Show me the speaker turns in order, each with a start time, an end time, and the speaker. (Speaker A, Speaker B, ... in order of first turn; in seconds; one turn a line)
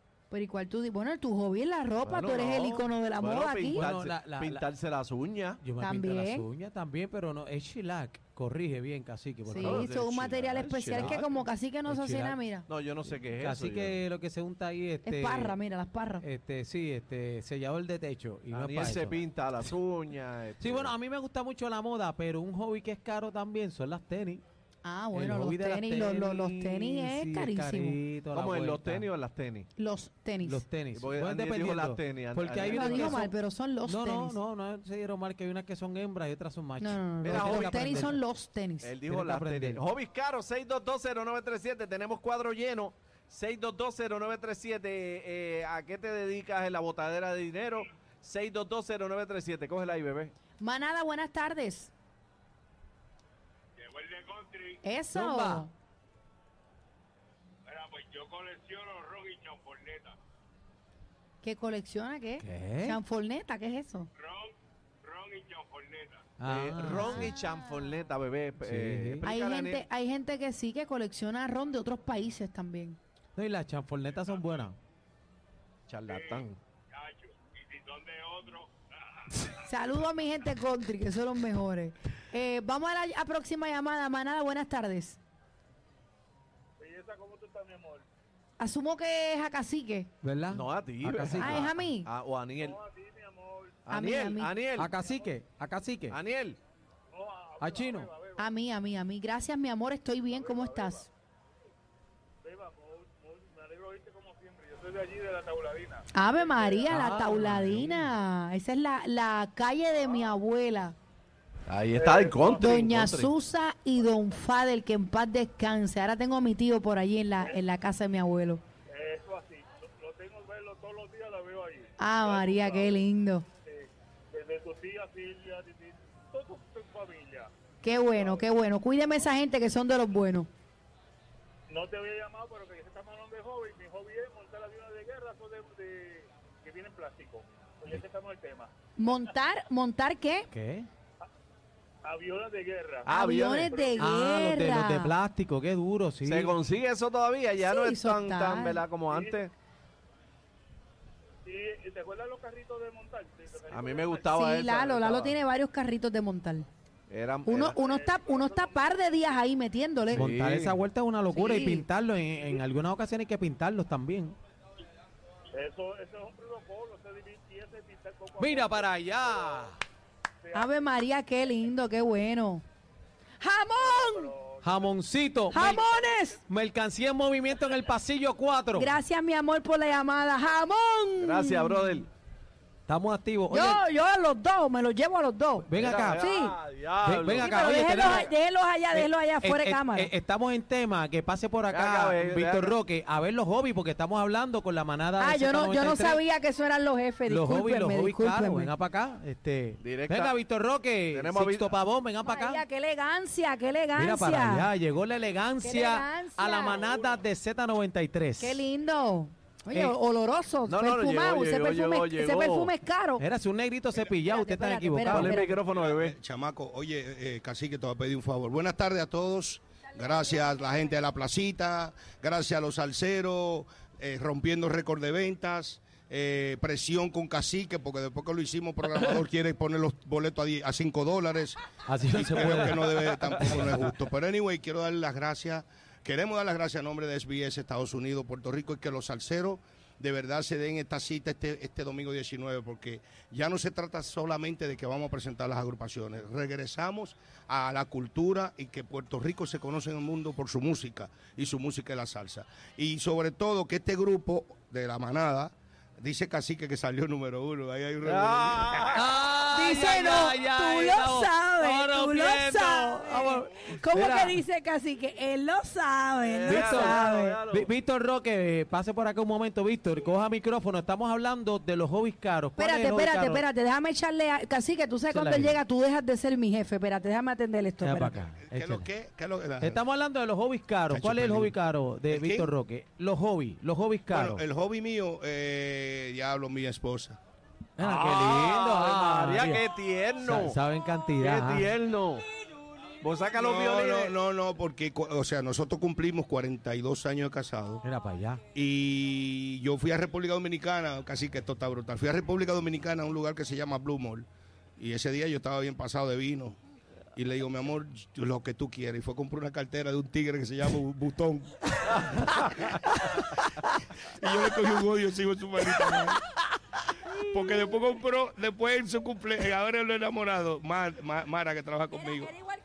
Speaker A: 0.3-3.9
Speaker B: 2.0-5.6
Speaker C: 3.7-4.7
Speaker C: 5.6-9.8
Speaker A: 5.8-6.5
Speaker A: 9.4-12.7
Speaker B: 9.6-11.5
Speaker C: 10.7-11.3
Speaker C: 11.8-12.4
Speaker B: 12.7-14.0
Speaker C: 13.0-15.6
Speaker A: 15.0-16.2
Speaker C: 16.2-19.2
Speaker B: 18.5-20.9
Speaker C: 20.6-24.4
Speaker A: 24.8-28.0
Speaker C: 25.1-29.1
Speaker B: 28.3-29.7
Speaker A: 29.8-30.6
Speaker C: 30.4-38.2
Speaker B: 30.9-33.3
Speaker A: 32.6-34.4
Speaker A: 36.8-39.0
Speaker B: 37.2-38.0
Speaker B: 38.8-50.3
Speaker C: 39.0-39.8
Speaker A: 50.6-51.9
Speaker D: 53.8-54.8
Speaker A: 54.8-55.7
Speaker C: 55.1-55.7
Speaker D: 57.7-60.1
Speaker A: 61.4-64.1
Speaker C: 62.4-63.0
Speaker D: 64.2-66.2
Speaker C: 66.4-67.3
Speaker B: 66.4-69.8
Speaker C: 68.6-69.2
Speaker A: 69.2-73.0
Speaker C: 73.3-74.8
Speaker B: 75.9-76.6
Speaker D: 76.1-78.7
Speaker A: 79.6-85.2
Speaker D: 86.8-88.0
Speaker A: 88.6-90.1
Speaker C: 90.2-91.9
Speaker B: 90.5-92.8
Speaker A: 91.3-92.1
Speaker D: 92.6-93.8
Speaker B: 93.8-94.9
Speaker A: 93.9-94.5
Speaker C: 94.7-96.2
Speaker B: 96.1-96.6
Speaker D: 97.1-98.4
Speaker C: 97.6-98.1
Speaker A: 98.3-101.1
Speaker D: 100.3-101.0
Speaker D: 102.4-107.0
Speaker A: 106.1-111.0
Speaker C: 106.9-108.1
Speaker B: 111.7-113.3
Speaker D: 111.9-112.7
Speaker A: 112.6-118.6
Speaker D: 118.9-123.0
Speaker A: 122.0-123.5
Speaker D: 123.7-127.5
Speaker A: 127.8-130.5
Speaker D: 128.1-128.4
Speaker D: 131.7-138.7
Speaker A: 139.0-140.5
Speaker C: 140.5-140.9
Speaker D: 142.0-144.0
Speaker B: 143.0-143.6
Speaker A: 143.1-145.1
Speaker C: 144.0-146.6
Speaker B: 146.2-149.5
Speaker A: 147.6-148.8
Speaker D: 149.1-149.4
Speaker D: 151.4-154.3
Speaker B: 153.7-155.4
Speaker A: 154.3-156.7
Speaker B: 157.1-157.9
Speaker A: 157.5-160.3
Speaker D: 157.9-158.9
Speaker B: 160.1-160.8
Speaker C: 160.1-164.3
Speaker A: 161.3-161.9
Speaker D: 165.5-169.6
Speaker C: 168.4-169.8
Speaker D: 170.4-170.7
Speaker A: 170.5-172.6
Speaker A: 173.4-174.3
Speaker D: 173.8-174.9
Speaker C: 174.6-175.9
Speaker A: 175.5-176.4
Speaker D: 175.9-176.3
Speaker C: 176.4-178.9
Speaker A: 178.7-182.0
Speaker B: 181.2-182.1
Speaker C: 182.9-183.8
Speaker A: 183.5-186.6
Speaker C: 185.6-186.3
Speaker B: 185.7-188.2
Speaker C: 187.0-188.3
Speaker A: 187.4-190.1
Speaker C: 188.9-196.2
Speaker B: 191.7-192.8
Speaker A: 195.2-198.7
Speaker C: 197.2-202.6
Speaker B: 199.8-200.3
Speaker B: 201.1-201.8
Speaker A: 202.2-204.7
Speaker C: 203.9-208.6
Speaker A: 205.6-206.8
Speaker A: 208.4-213.2
Speaker B: 210.7-212.7
Speaker C: 213.2-215.5
Speaker A: 214.1-215.5
Speaker B: 215.0-216.2
Speaker E: 215.7-258.9
Speaker C: 231.8-233.8
Speaker B: 258.0-259.2
Speaker C: 258.9-264.4
Speaker A: 259.5-267.4
Speaker B: 266.2-267.7
Speaker C: 266.5-273.4
Speaker A: 272.6-278.2
Speaker C: 275.1-275.6
Speaker C: 277.8-278.9
Speaker E: 278.4-279.8
Speaker C: 279.6-284.4
Speaker E: 280.9-281.6
Speaker E: 282.1-282.5
Speaker E: 284.1-287.2
Speaker C: 287.8-289.6
Speaker B: 287.8-290.6
Speaker C: 290.2-291.7
Speaker B: 291.2-292.2
Speaker B: 293.0-294.1
Speaker E: 293.3-297.8
Speaker C: 297.8-298.4
Speaker E: 298.5-304.3
Speaker E: 304.8-306.6
Speaker E: 307.1-313.2
Speaker E: 314.0-316.2
Speaker E: 317.1-322.3